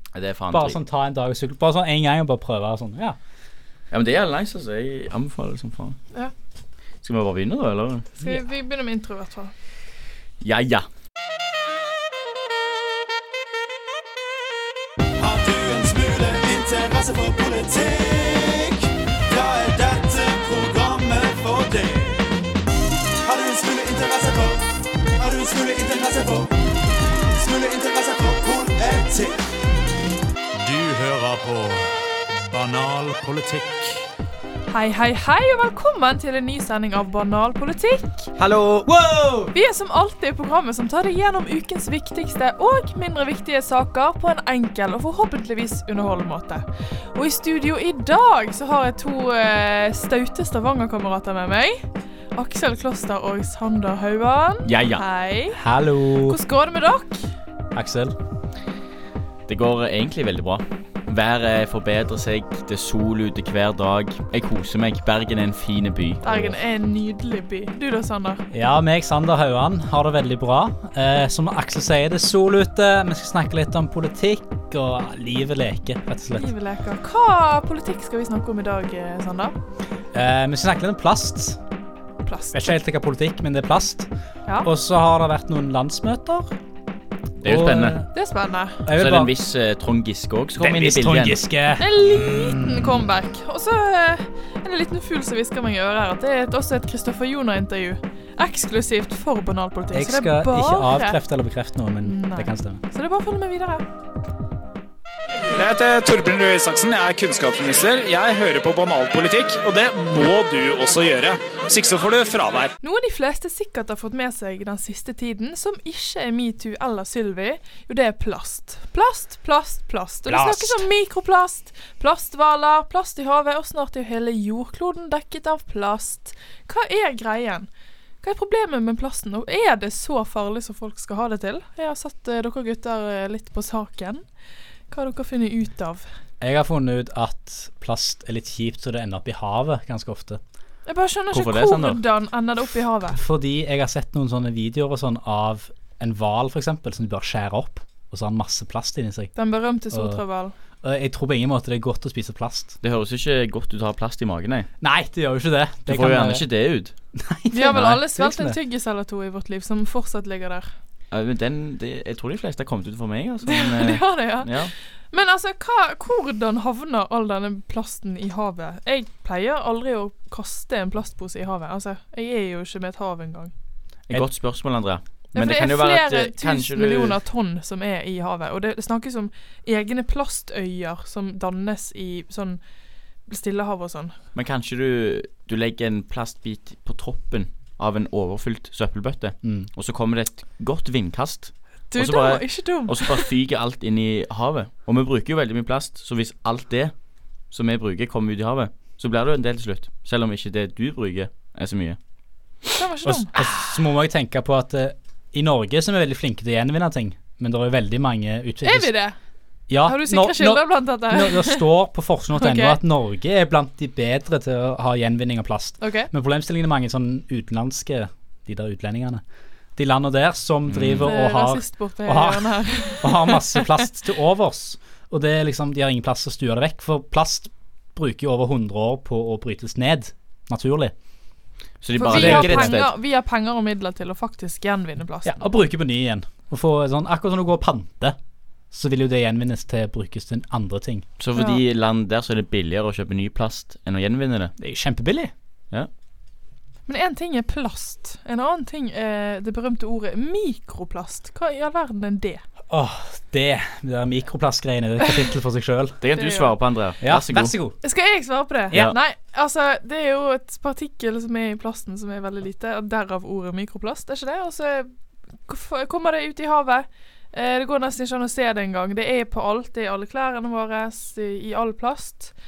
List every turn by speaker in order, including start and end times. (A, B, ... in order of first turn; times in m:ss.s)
0:00.1-0:00.8 A
0:00.5-0:03.2 B
0:03.9-0:06.0 A
0:07.0-0:08.1 A
0:08.2-0:09.5 C
0:10.4-0:10.9 A
0:15.2-0:22.2 D
0:23.2-0:24.6 D
0:25.2-0:26.6 D
0:27.3-0:29.4 D
0:30.6-0:34.0 D
0:34.7-0:38.3 C
0:38.4-0:39.5 B
0:39.5-0:57.3 C
0:54.7-0:55.0 A
0:55.5-0:56.4 B
0:57.7-0:58.2 B
0:59.5-1:06.5 A
1:06.2-1:08.4 C
1:08.5-1:16.5 B
1:16.4-1:19.6 C
1:20.1-1:21.6 B
1:22.2-1:22.6 C
1:22.5-1:24.1 B
1:24.6-1:26.5 B
1:27.4-1:28.0 A
1:27.4-1:28.1 B
1:28.1-1:28.8 C
1:28.9-1:29.3 B
1:29.0-1:31.4 A
1:30.6-1:33.0 B
1:31.8-1:41.2 C
1:39.9-1:42.8 B
1:42.0-1:43.8 C
1:45.5-1:52.7 E
1:52.8-2:07.7 C
2:00.3-2:00.8 B
2:08.2-2:14.2 C
2:14.9-2:16.0 C
2:16.4-2:20.4 B
2:20.9-2:23.2 C
2:21.3-2:22.0 A
2:23.1-2:29.3 B
2:29.4-2:30.5 C
2:29.9-2:30.2 B
2:30.8-2:32.8 B
2:32.8-2:34.7 A
2:34.8-2:36.5 B
2:35.9-2:36.9 A
2:37.2-2:38.6 B
2:37.5-2:40.7 C
2:41.1-2:44.7 A
2:43.4-2:53.5 C
2:54.1-2:57.2 A
2:55.3-3:02.6 C
3:03.3-3:04.1 C
3:04.4-3:16.9 A
3:11.9-3:13.3 C
3:17.5-3:22.0 A
3:22.8-3:23.3 C
3:23.0-3:28.9 B
3:28.6-3:29.2 C
3:29.7-3:39.2 B
3:29.8-3:31.7 C
3:32.4-3:32.8 C
3:35.8-3:36.1 C
3:39.8-3:50.9 B
3:40.7-3:41.1 A
3:41.0-3:43.8 C
3:51.8-3:52.9 A
3:52.0-3:55.4 C
3:52.1-3:52.8 B
3:55.2-3:58.2 B
3:58.7-4:01.0 B
4:01.2-4:04.5 A
4:01.4-4:01.6 C
4:04.6-4:05.3 B
4:06.9-4:12.4 C
4:12.7-4:16.0 B
4:16.0-4:17.6 A
4:16.1-4:16.5 C
4:17.0-4:17.8 B
4:17.8-4:24.9 C
4:25.5-4:32.3 C